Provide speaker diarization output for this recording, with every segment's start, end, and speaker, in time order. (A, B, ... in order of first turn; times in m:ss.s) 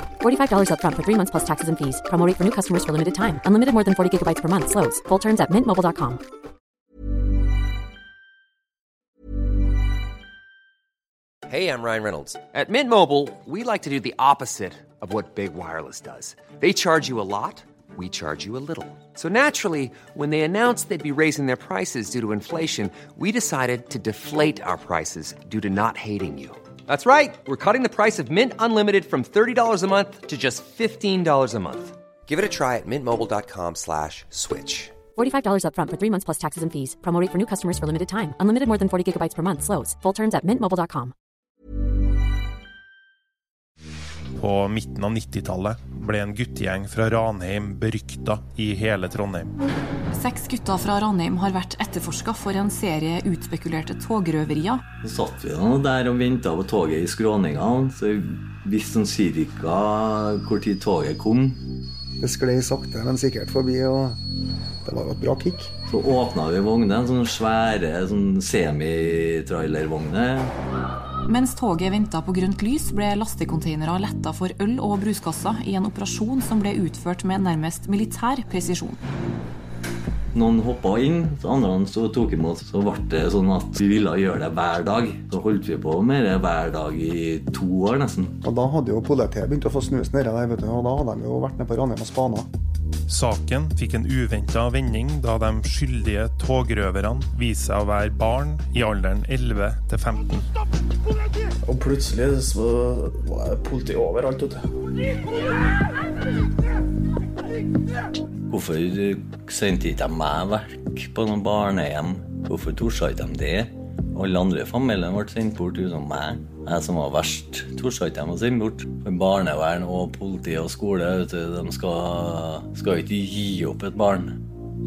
0:00.2-0:06.2 A
0:11.5-0:34.9 B
0:35.2-0:41.1 A
0:44.4-0:49.5 C
0:50.1-0:54.8 D
0:55.0-1:01.6 E
1:02.2-1:04.2 F
1:04.8-1:05.7 F
1:05.9-1:10.5 E
1:11.2-1:19.0 D
1:20.3-1:28.4 E
1:28.4-1:32.5 F
1:33.1-1:40.5 C
1:41.7-1:44.6 G
1:48.5-2:04.4 E